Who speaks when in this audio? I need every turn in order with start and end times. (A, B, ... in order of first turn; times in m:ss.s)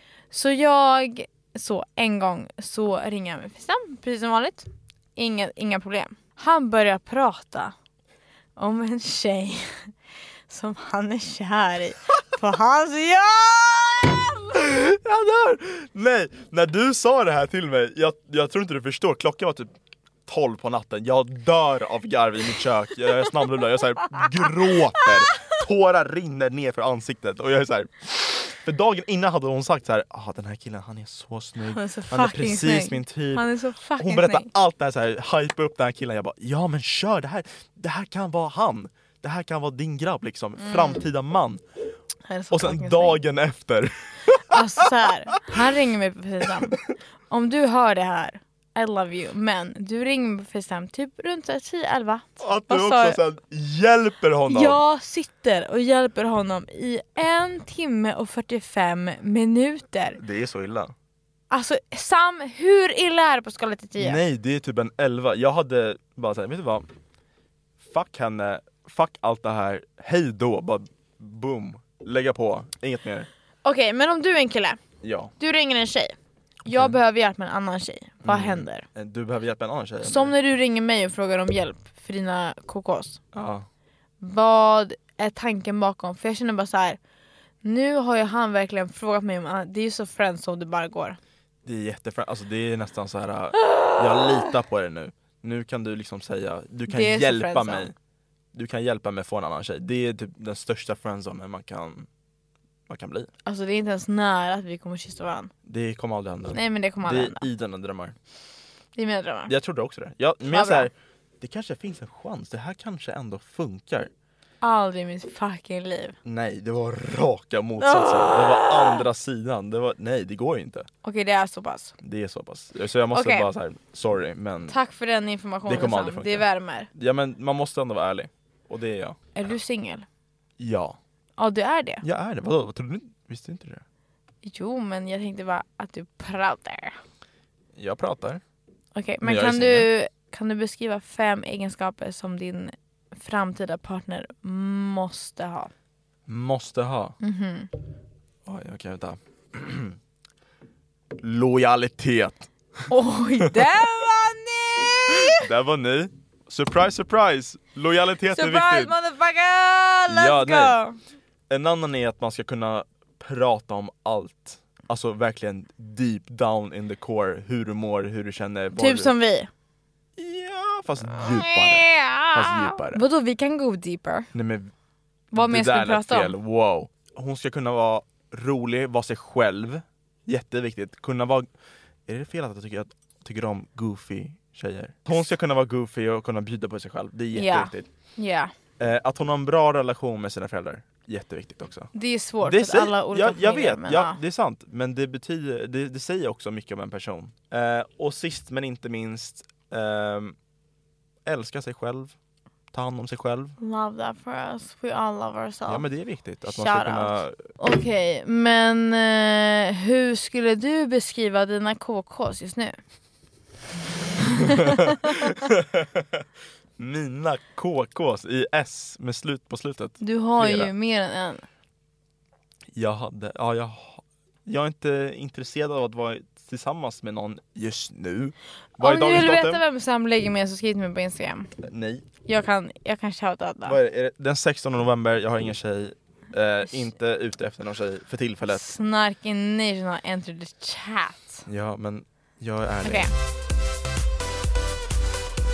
0:00.3-0:07.7 A
0:08.6-0:09.9 A
0:10.5-0:14.3 A
0:14.5-0:19.7 B
0:20.3-0:41.6 B
0:31.6-0:34.5 A
0:40.6-0:41.0 A
0:42.3-0:43.2 A
0:42.5-0:45.6 B
0:44.4-0:53.2 A
0:52.4-0:54.8 B
0:54.5-1:00.2 A
1:00.2-1:00.9 B
1:01.5-1:04.2 A
1:04.0-1:06.9 B
1:07.8-1:13.3 B
1:13.6-1:14.8 A
1:15.0-1:15.3 B
1:15.4-1:18.8 A
1:16.6-1:17.0 B
1:18.2-1:20.3 B
1:20.0-1:23.2 A
1:23.3-1:23.7 B
1:24.2-1:27.0 A
1:27.6-1:31.2 A
1:31.6-1:37.9 B
1:36.9-1:37.9 A
1:38.5-1:42.1 B
1:42.9-1:43.3 B
1:43.4-1:45.5 A
1:45.6-1:48.2 B
1:46.5-1:47.5 A
1:49.0-1:49.5 A
1:49.5-1:54.1 B
1:50.5-1:50.9 A
1:54.6-1:56.2 A
1:56.2-2:00.9 B
1:57.8-1:59.0 A
2:01.0-2:01.9 A
2:02.0-2:04.8 B
2:03.1-2:03.5 A
2:04.7-2:06.9 A
2:05.6-2:09.3 B
2:09.3-2:10.0 A
2:10.6-2:11.0 B
2:11.4-2:12.0 A
2:12.0-2:13.8 B
2:14.4-2:17.0 A
2:17.7-2:18.4 B
2:18.9-2:25.7 A
2:19.2-2:19.9 B
2:26.3-2:27.2 B
2:27.2-2:27.7 A
2:28.4-2:30.0 B
2:31.2-2:32.9 B
2:32.9-2:35.5 A
2:35.2-2:38.9 B
2:38.3-2:41.0 A
2:40.1-2:40.8 B
2:41.5-2:49.1 B
2:48.8-2:49.5 A
2:50.2-2:53.0 B
2:51.1-2:54.3 A
2:54.3-2:54.7 B
2:55.3-2:56.4 A
2:55.3-3:01.5 B
3:02.1-3:07.8 B
3:07.3-3:08.5 A
3:08.8-3:11.9 B
3:11.9-3:14.2 A
3:12.4-3:20.4 B
3:21.2-3:22.2 B
3:22.7-3:23.6 B
3:23.6-3:25.9 A
3:25.7-3:27.5 B
3:26.4-3:32.8 A
3:34.4-3:35.1 A
3:34.5-3:36.2 B
3:36.8-3:40.7 B
3:40.0-3:41.4 A
3:42.7-3:49.6 B
3:48.8-3:51.5 A
3:51.6-3:52.0 B
3:52.2-3:53.8 A
3:53.6-3:58.7 B
3:58.5-4:01.4 A
4:01.5-4:03.1 B
4:02.8-4:03.1 A